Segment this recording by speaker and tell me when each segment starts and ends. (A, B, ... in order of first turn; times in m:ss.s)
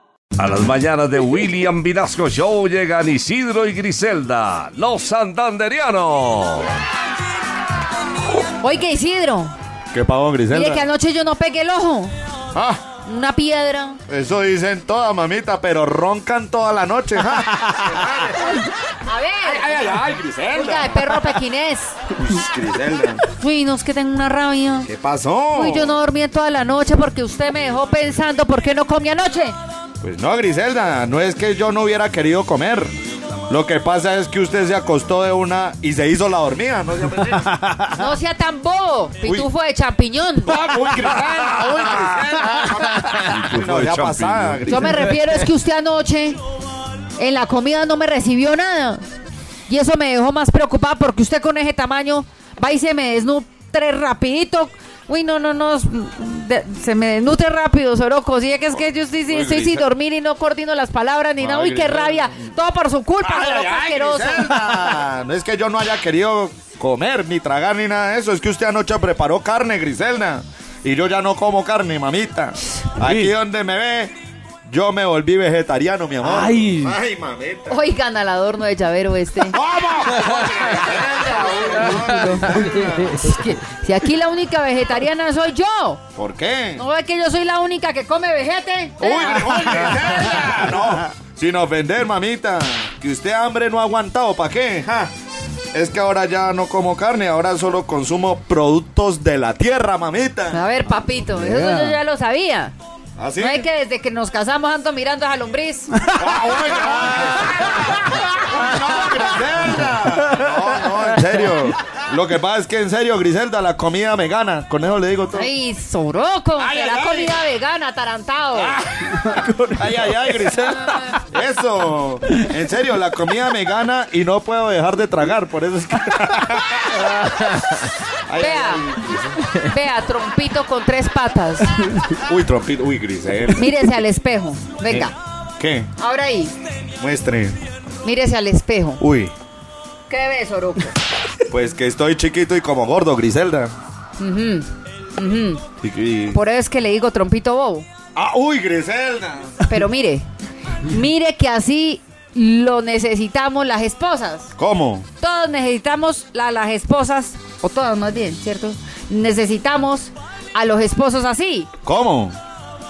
0:00.4-0:06.7 A
0:08.6-0:09.5 B
0:09.9-0:10.8 C
0:10.5-0:12.1 B
0:12.5-0:12.8 C
0:13.0-0:14.0 B
0:14.1-0:18.6 C
0:19.0-0:19.7 B
0:19.4-0:21.4 C
0:20.5-0:22.0 B
0:22.1-0:23.2 C
0:23.4-0:24.9 B
0:24.9-0:26.0 C
0:25.5-0:29.6 B
0:30.0-0:32.9 C
0:33.5-0:38.1 C
0:37.9-0:40.6 B
0:40.4-0:45.4 C
0:41.0-0:45.1 A
0:44.7-0:46.4 B
0:47.2-0:49.0 B
0:49.7-1:04.5 B
0:58.8-0:59.8 C
1:01.4-1:02.5 C
1:03.2-1:14.1 C
1:14.7-1:17.8 C
1:16.4-1:16.9 A
1:17.7-1:19.6 B
1:19.5-1:23.3 C
1:22.1-1:26.0 B
1:26.2-1:26.8 C
1:26.8-1:29.9 B
1:29.0-1:35.1 C
1:35.7-1:40.6 C
1:40.5-1:42.7 B
1:41.4-1:41.8 A
1:43.2-1:43.7 C
1:43.4-1:46.1 B
1:46.1-1:55.5 C
1:55.3-1:58.8 B
1:56.6-1:57.4 C
1:58.9-2:07.3 C
1:59.2-1:59.6 A
2:08.3-2:09.4 C
2:08.3-2:11.8 B
2:12.1-2:13.8 C
2:13.5-2:15.2 B
2:14.8-2:15.9 C
2:16.0-2:16.6 B
2:17.0-2:17.6 C
2:18.0-2:19.0 B
2:19.0-2:19.3 C
2:20.1-2:21.0 B
2:21.5-2:23.7 C
2:24.2-2:25.6 B
2:25.8-2:26.4 C
2:26.3-2:27.9 B
2:28.2-2:29.6 C
2:29.7-2:30.3 B
2:30.8-2:34.5 B
2:34.6-2:35.1 C
2:35.2-2:41.7 B
2:41.8-2:42.4 C